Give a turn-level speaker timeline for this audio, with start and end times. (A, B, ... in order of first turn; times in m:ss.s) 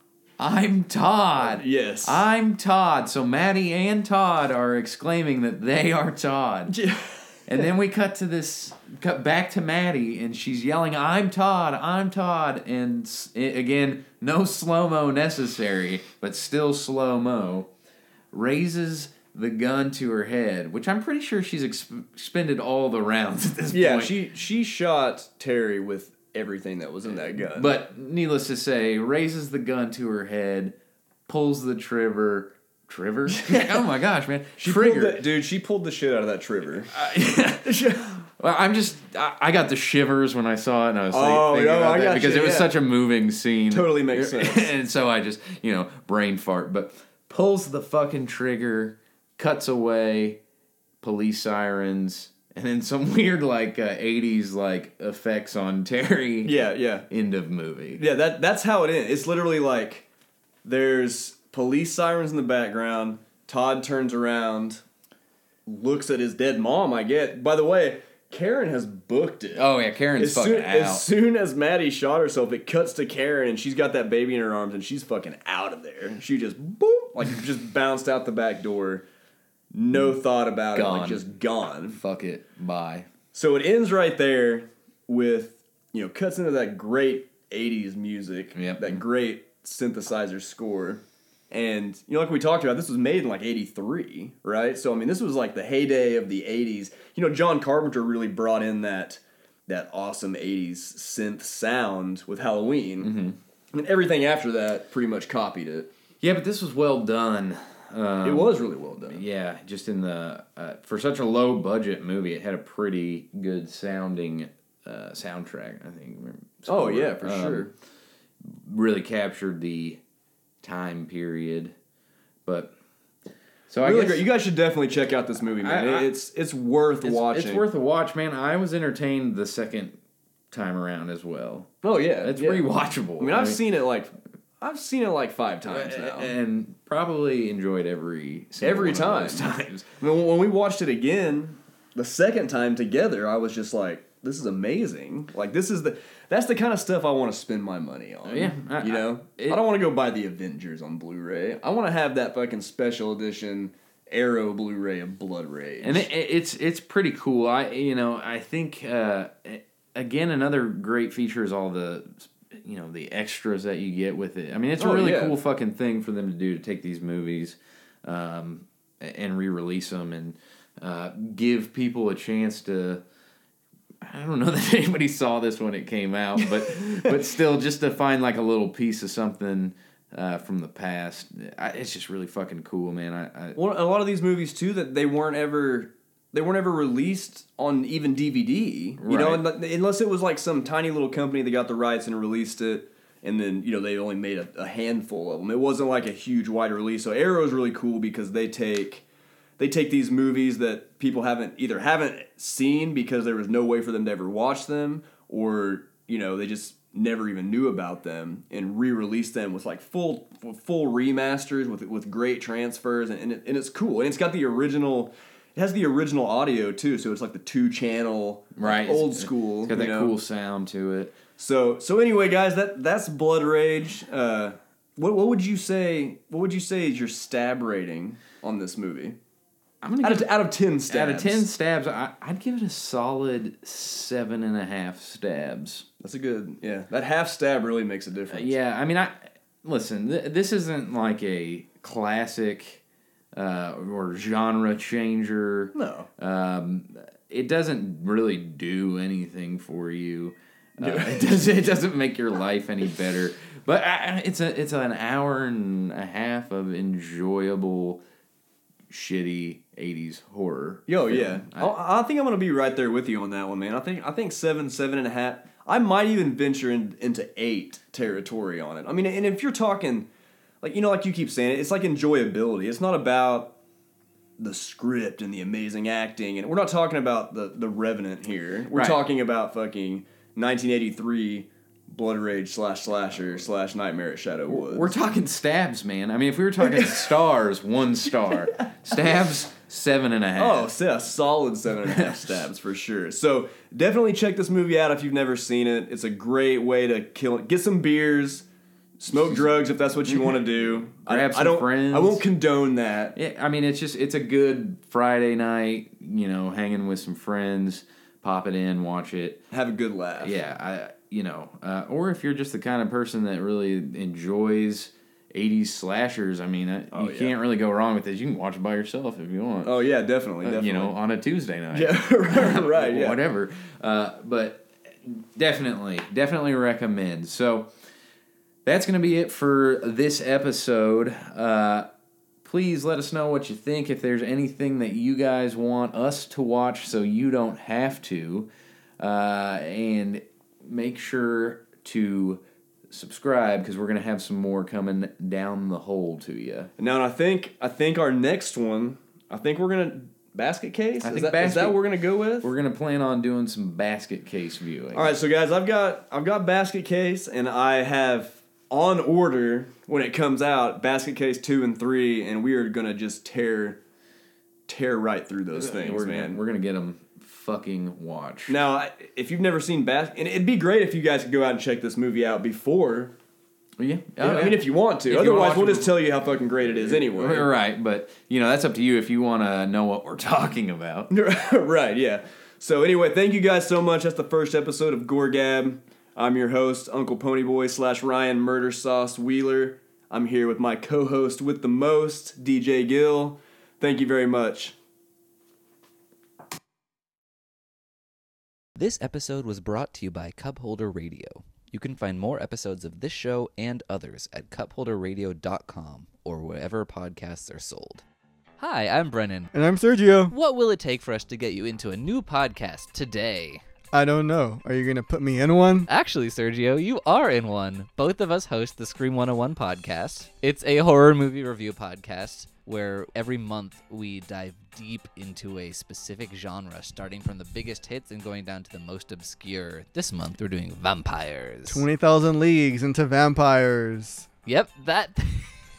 0:00.4-0:06.8 A
0:01.4-0:02.2 B
0:06.7-0:07.7 B
0:07.5-0:17.7 A
0:18.3-0:24.2 A
0:23.7-0:27.7 B
0:27.4-0:30.7 A
0:31.3-0:35.2 A
0:33.4-0:33.8 B
0:34.6-0:36.9 B
0:36.9-0:50.4 A
0:37.6-0:38.1 B
0:41.1-0:42.7 B
0:43.7-0:44.7 B
0:51.0-0:58.0 A
0:56.4-0:57.1 B
0:58.0-1:00.1 B
1:00.6-1:04.8 B
1:05.6-1:09.6 B
1:09.6-1:11.0 A
1:10.2-1:19.0 B
1:19.7-1:22.0 B
1:20.7-1:21.2 A
1:21.9-1:23.1 A
1:23.3-1:43.1 B
1:28.6-1:29.0 A
1:43.0-1:43.4 A
1:43.7-1:45.9 B
1:46.2-1:57.7 A
1:48.2-1:49.2 B
1:56.7-1:57.7 B
1:58.5-2:00.0 A
2:00.6-2:01.7 A
2:02.4-2:02.7 A
2:03.7-2:04.2 A
2:03.8-2:07.6 B
2:05.6-2:06.1 A
2:07.0-2:10.0 A
2:10.5-2:13.6 A
2:11.8-2:12.7 B
2:13.2-2:16.3 B
2:15.7-2:19.9 A
2:18.6-2:36.1 B
2:28.2-2:29.6 A
2:35.8-2:53.0 A
2:44.8-2:45.4 B
2:54.0-3:03.6 A
2:56.4-2:57.1 B
3:03.6-3:19.0 B
3:09.0-3:09.4 A
3:19.6-3:40.1 B
3:38.6-3:41.2 A
3:41.4-3:49.2 B
3:49.8-3:50.3 A
3:50.0-3:51.5 B
3:50.9-3:55.9 A
3:56.0-3:58.5 B
3:58.3-4:02.8 A
4:03.4-4:18.0 A
4:05.7-4:06.1 B
4:10.8-4:11.4 B
4:18.9-4:21.7 A
4:20.9-4:30.1 B
4:30.6-4:33.5 B
4:34.4-4:44.9 B
4:38.7-4:39.0 A
4:44.5-4:50.7 A
4:46.6-4:47.2 B
4:50.4-4:58.4 B
4:59.0-5:03.2 B
5:01.0-5:02.2 A
5:03.2-5:09.4 A
5:09.5-5:10.4 B
5:10.2-5:19.7 A
5:16.9-5:17.4 B
5:19.6-5:20.9 B
5:20.4-5:27.7 A
5:21.7-5:23.2 B
5:28.6-5:31.9 A
5:32.4-5:38.5 A
5:39.0-5:46.7 A
5:46.8-5:52.5 B
5:51.0-5:51.8 A
5:52.4-5:55.1 A
5:54.9-6:03.8 B
6:04.7-6:06.4 B
6:05.6-6:08.6 A
6:08.5-6:13.1 B
6:13.8-6:15.9 A
6:14.2-6:17.5 B
6:16.8-6:21.1 A
6:21.1-6:34.8 B
6:38.8-6:48.0 C
6:48.6-6:49.5 C
6:49.5-6:50.3 D
6:50.3-6:53.6 C
6:53.9-6:55.9 D
6:55.9-7:11.7 C
7:11.7-7:14.3 D
7:14.5-7:15.5 C